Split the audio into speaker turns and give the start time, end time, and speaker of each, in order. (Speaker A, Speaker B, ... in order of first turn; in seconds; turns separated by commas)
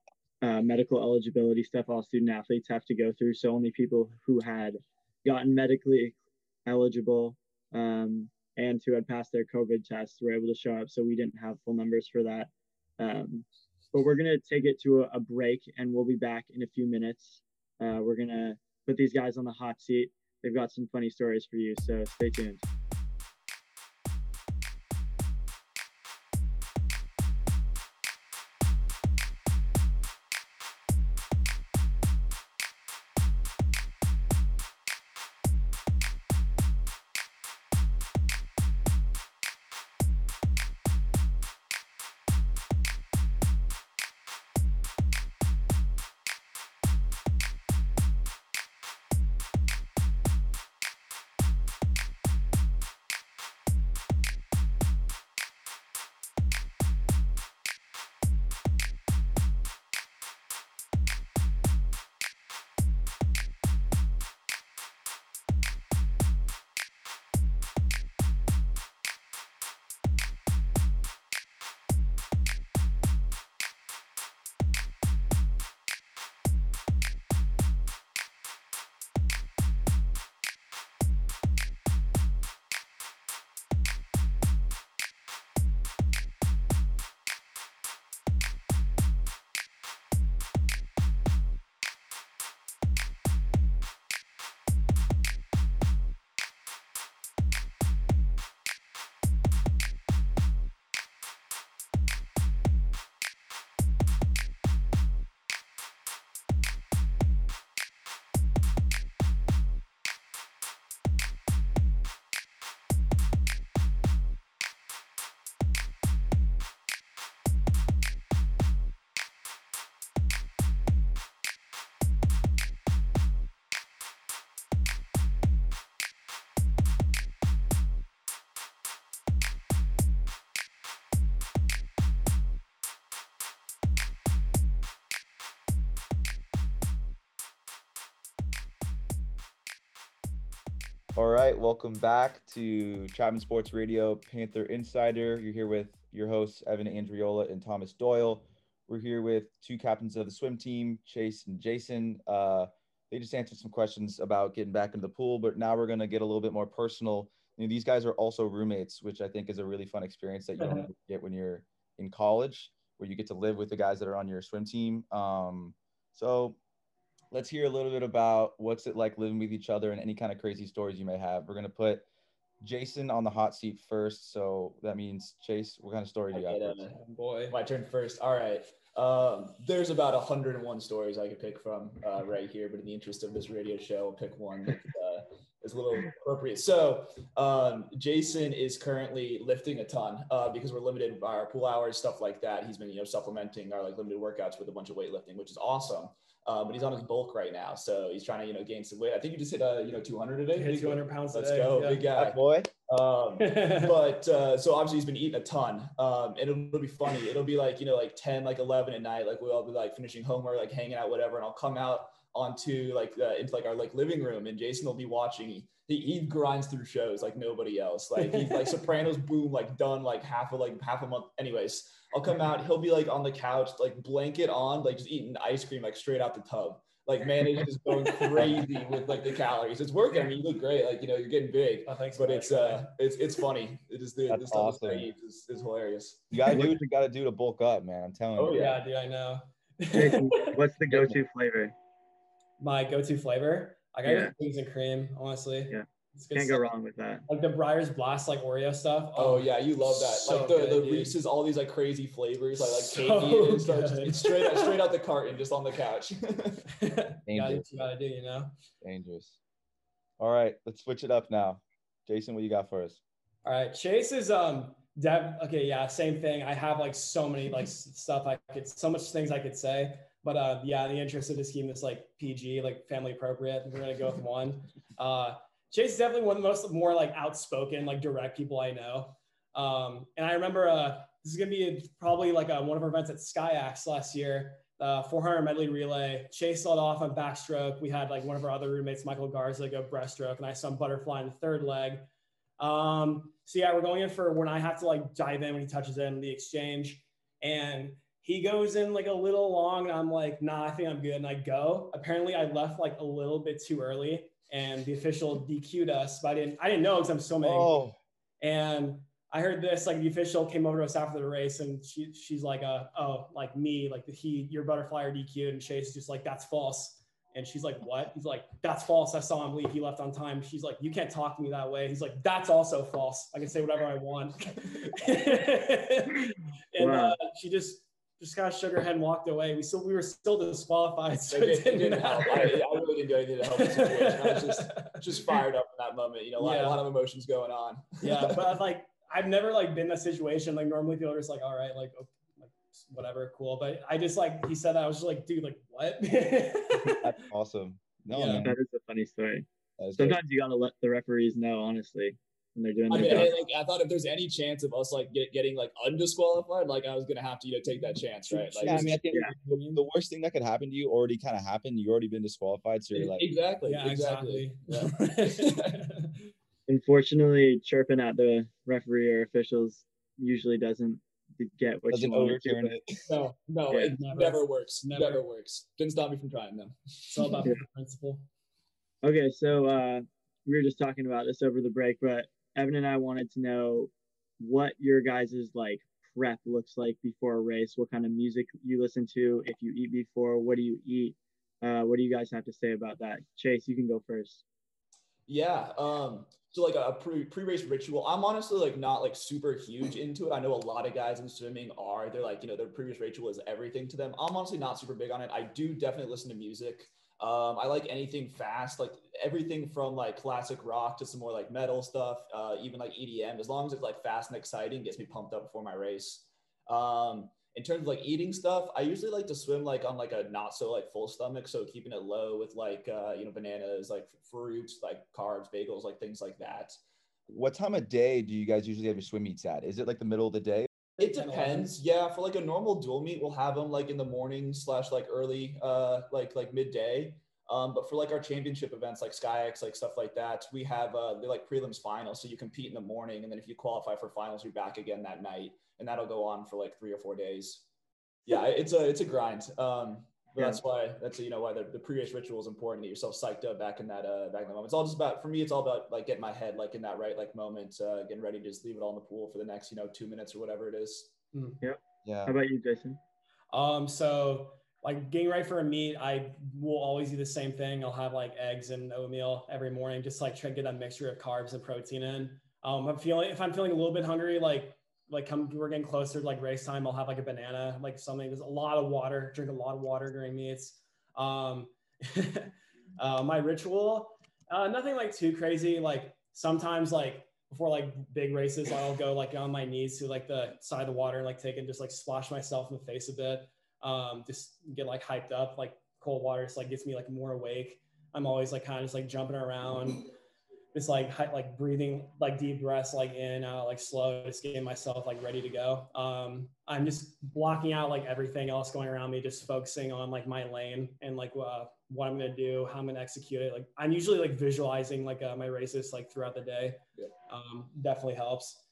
Speaker A: 0.4-22.6, Speaker B: 141.1-166.6, Speaker C: 160.6-160.9, Speaker B: 167.3-172.1, Speaker B: 172.6-176.8, Speaker D: 176.3-236.6, Speaker C: 176.9-177.6, Speaker C: 200.5-202.0, Speaker B: 202.2-202.7, Speaker C: 203.4-203.9, Speaker C: 218.2-218.6, Speaker C: 231.8-232.9, Speaker B: 234.3-235.1, Speaker B: 236.3-238.6, Speaker D: 238.3-238.8, Speaker C: 238.6-240.6, Speaker A: 239.9-241.7, Speaker B: 240.9-241.2, Speaker C: 242.6-246.7, Speaker A: 244.0-244.3, Speaker A: 245.7-247.2, Speaker C: 247.3-251.2, Speaker D: 249.2-256.6, Speaker C: 252.6-254.7, Speaker C: 256.8-258.5, Speaker B: 257.3-257.6, Speaker B: 258.8-259.4, Speaker B: 260.2-263.0, Speaker C: 263.4-292.1, Speaker C: 292.6-307.8, Speaker B: 307.4-308.0, Speaker C: 308.4-332.6, Speaker A: 326.8-327.2, Speaker D: 331.2-338.4, Speaker C: 333.6-335.0, Speaker C: 336.4-336.8, Speaker C: 338.0-347.0, Speaker B: 346.8-348.6, Speaker C: 348.1-348.5, Speaker A: 348.4-349.4, Speaker B: 349.8-350.2, Speaker A: 350.0-353.3, Speaker D: 352.9-358.9, Speaker C: 358.3-359.8, Speaker B: 358.6-363.2, Speaker D: 362.9-365.8, Speaker C: 363.6-366.3, Speaker A: 366.7-372.8, Speaker B: 371.9-373.0, Speaker D: 373.1-377.4, Speaker A: 373.7-373.9, Speaker C: 373.9-375.2, Speaker C: 377.0-378.3, Speaker A: 379.0-394.4, Speaker D: 395.3-426.7, Speaker B: 427.3-430.7, Speaker C: 431.0-431.8, Speaker D: 431.0-447.7, Speaker D: 448.2-461.1, Speaker C: 461.3-461.6, Speaker A: 461.6-463.0, Speaker B: 462.0-462.3, Speaker C: 463.5-500.1, Speaker C: 500.7-518.6